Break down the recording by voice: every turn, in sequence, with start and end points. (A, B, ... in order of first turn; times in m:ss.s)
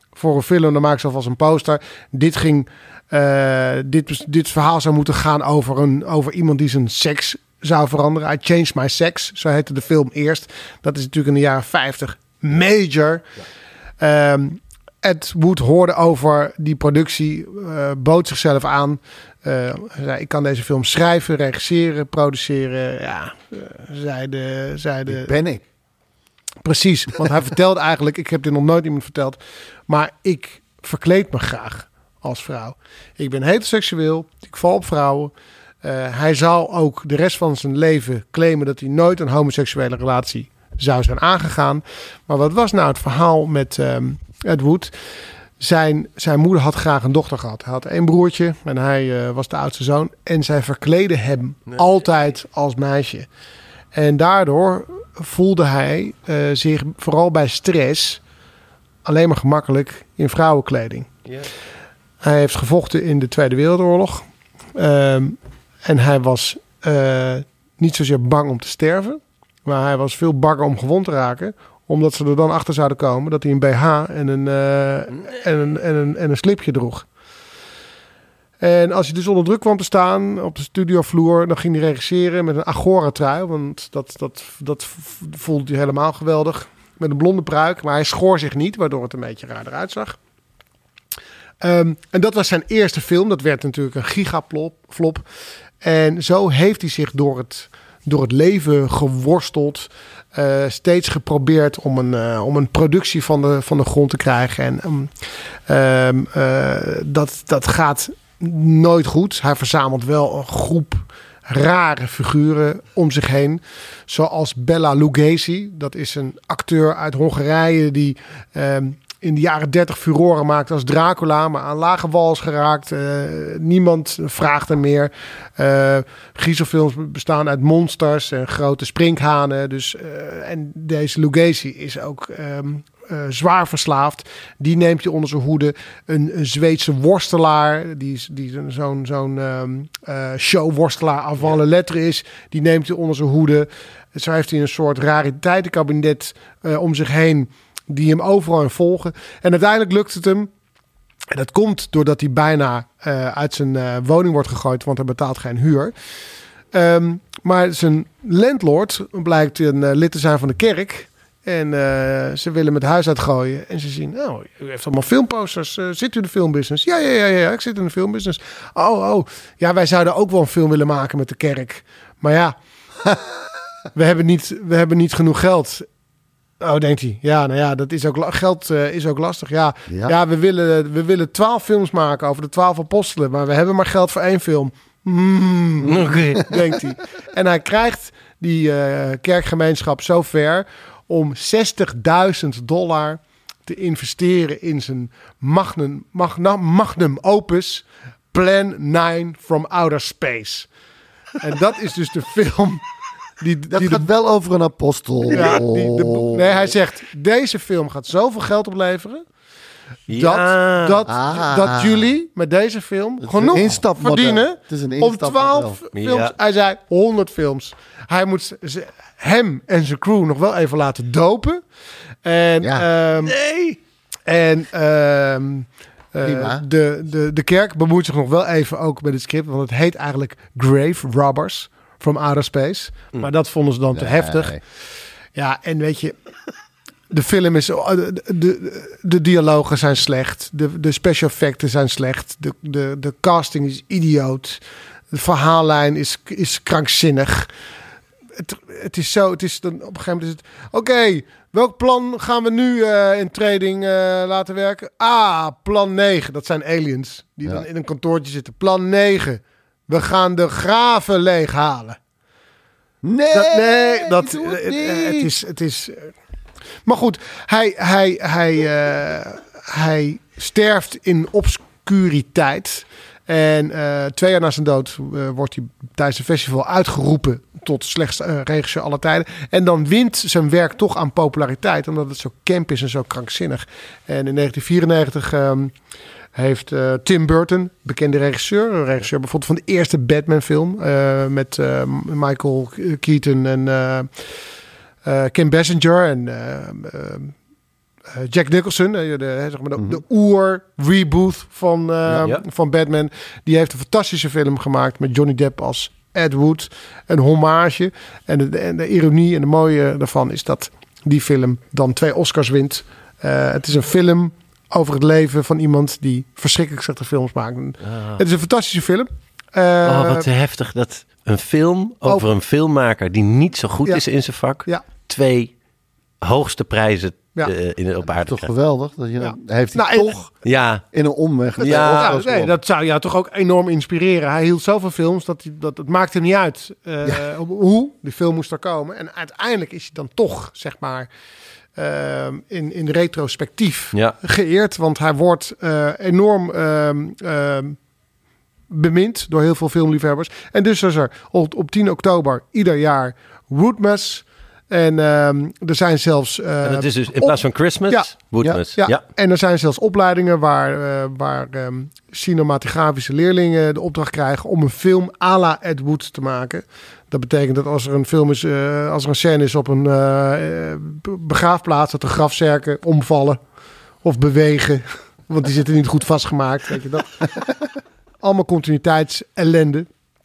0:00.2-0:13.3 A
0:14.0-0:25.3 A
0:25.1-0:25.6 B
0:26.6-0:44.9 A
0:45.6-0:53.3 A
0:53.9-0:58.2 A
0:59.0-1:01.1 A
1:02.2-1:04.2 A
1:04.8-1:17.1 A
1:18.6-1:30.2 A
1:31.6-1:35.2 A
1:35.8-1:45.1 A
1:45.7-2:30.5 A
2:31.3-2:35.9 A
2:36.7-2:52.6 A
2:53.9-2:55.9 A
2:56.6-3:20.7 A
2:59.9-3:00.2 B
3:05.8-3:06.5 C
3:21.4-3:22.8 A
3:23.4-3:24.0 A
3:23.7-3:26.7 B
3:25.3-3:29.2 A
3:30.1-3:31.0 C
3:30.1-3:41.6 A
3:31.1-3:32.1 B
3:33.2-3:35.8 B
3:36.0-3:36.3 C
3:42.2-3:43.4 A
3:42.6-3:42.9 B
3:43.2-3:43.8 C
3:44.3-3:54.6 A
3:46.2-3:46.6 B
3:53.9-3:54.6 B
3:55.4-3:56.2 A
3:57.1-4:04.6 A
4:05.1-4:07.5 A
4:08.4-4:22.0 A
4:23.0-4:25.3 B
4:23.3-4:26.1 A
4:26.8-4:45.7 A
4:46.4-4:54.1 A
4:55.0-4:57.3 A
4:58.1-5:20.3 A
4:59.8-5:00.0 B
5:17.9-5:18.2 C
5:19.8-5:25.5 C
5:26.2-5:28.5 C
5:28.2-5:30.3 B
5:29.2-5:30.1 A
5:30.4-5:30.8 C
5:30.9-5:32.6 B
5:31.6-5:32.2 C
5:31.6-5:41.1 A
5:41.8-5:47.8 A
5:48.7-5:57.4 A
5:56.6-5:59.0 C
5:58.8-6:13.4 A
6:14.0-6:17.3 A
6:18.2-6:19.9 A